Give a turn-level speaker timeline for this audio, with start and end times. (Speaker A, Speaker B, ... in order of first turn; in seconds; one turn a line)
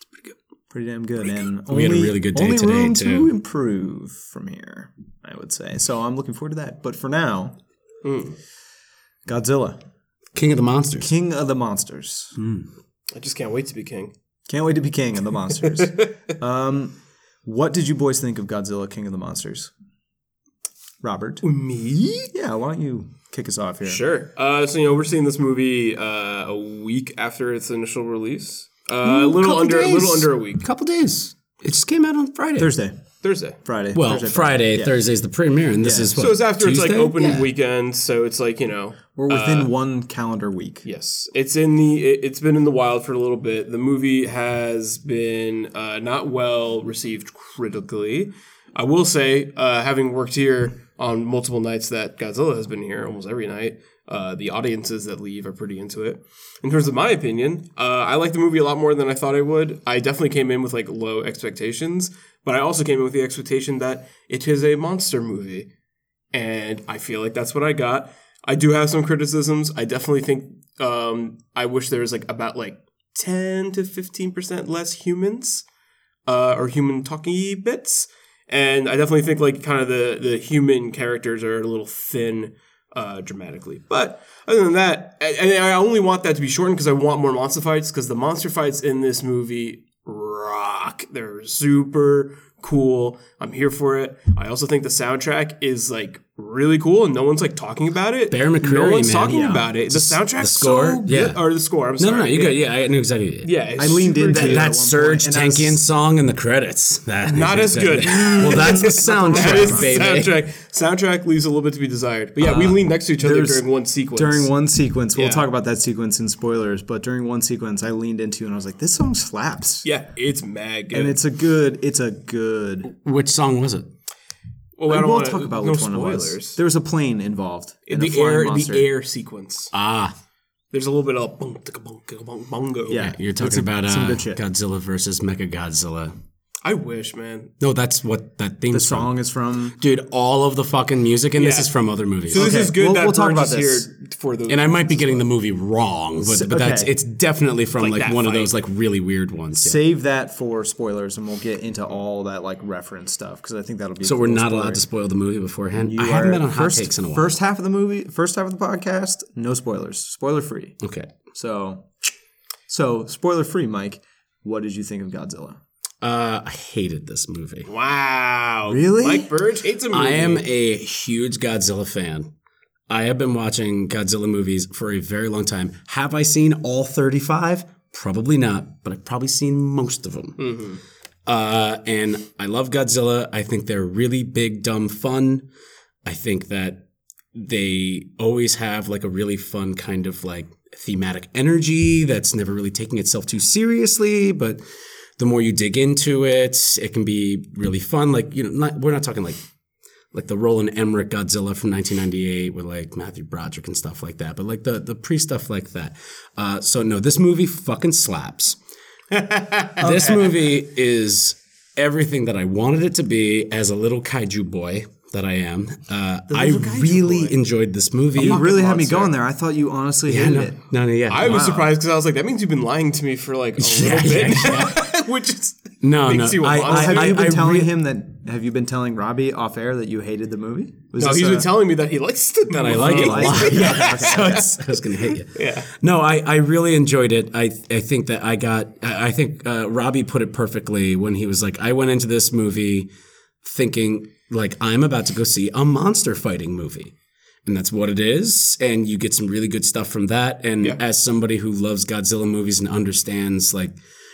Speaker A: 0.7-7.6
Speaker B: 1.7-3.3
Speaker C: 8.0-8.4
Speaker A: 9.2-9.8
Speaker B: 10.3-11.1
Speaker A: 11.0-12.4
Speaker B: 12.4-12.6
Speaker C: 13.1-14.1
Speaker A: 14.5-19.7
Speaker A: 21.0-21.4
Speaker C: 21.4-22.3
Speaker A: 22.3-24.0
Speaker C: 23.9-30.6
Speaker B: 29.2-32.7
Speaker A: 29.8-30.2
Speaker A: 32.6-33.0
Speaker C: 33.2-33.6
Speaker A: 33.6-35.0
Speaker B: 33.9-37.5
Speaker A: 35.8-36.2
Speaker C: 36.1-39.7
Speaker A: 39.2-40.9
Speaker C: 40.8-65.7
Speaker C: 66.3-75.7
Speaker C: 76.3-102.6
Speaker B: 98.3-101.4
Speaker B: 102.0-103.5
Speaker C: 103.4-104.7
Speaker A: 103.8-105.8
Speaker B: 104.3-110.3
Speaker C: 107.2-114.5
Speaker A: 108.4-110.0
Speaker A: 112.4-119.8
Speaker C: 115.1-115.5
Speaker C: 119.8-121.2
Speaker A: 120.9-122.9
Speaker B: 122.8-123.9
Speaker C: 124.8-126.6
Speaker A: 124.9-128.9
Speaker C: 127.9-129.7
Speaker B: 129.7-130.2
Speaker C: 130.7-133.1
Speaker A: 132.9-134.4
Speaker B: 132.9-136.1
Speaker C: 136.6-137.5
Speaker B: 137.6-139.1
Speaker A: 138.7-139.8
Speaker B: 139.7-142.5
Speaker C: 141.3-141.7
Speaker C: 142.3-145.2
Speaker A: 142.3-143.9
Speaker B: 144.5-149.8
Speaker A: 146.2-146.9
Speaker C: 147.8-148.5
Speaker A: 149.6-154.8
Speaker B: 154.0-157.4
Speaker A: 155.7-160.8
Speaker B: 160.8-161.1
Speaker A: 161.3-161.9
Speaker A: 162.7-165.6
Speaker B: 166.0-167.7
Speaker C: 167.7-170.4
Speaker A: 168.7-169.3
Speaker B: 169.9-172.3
Speaker B: 172.9-180.5
Speaker C: 180.4-180.8
Speaker B: 181.2-185.5
Speaker B: 186.0-194.6
Speaker B: 195.2-199.4
Speaker B: 200.1-208.6
Speaker C: 209.1-210.3
Speaker B: 209.8-218.4
Speaker C: 216.3-217.4
Speaker C: 218.2-219.1
Speaker A: 218.2-220.6
Speaker B: 220.1-221.5
Speaker C: 221.1-227.2
Speaker A: 221.2-221.7
Speaker B: 223.6-224.8
Speaker B: 225.8-227.7
Speaker A: 226.6-231.5
Speaker C: 231.0-235.7
Speaker B: 232.5-242.9
Speaker A: 232.7-234.5
Speaker B: 243.4-246.9
Speaker B: 247.4-253.8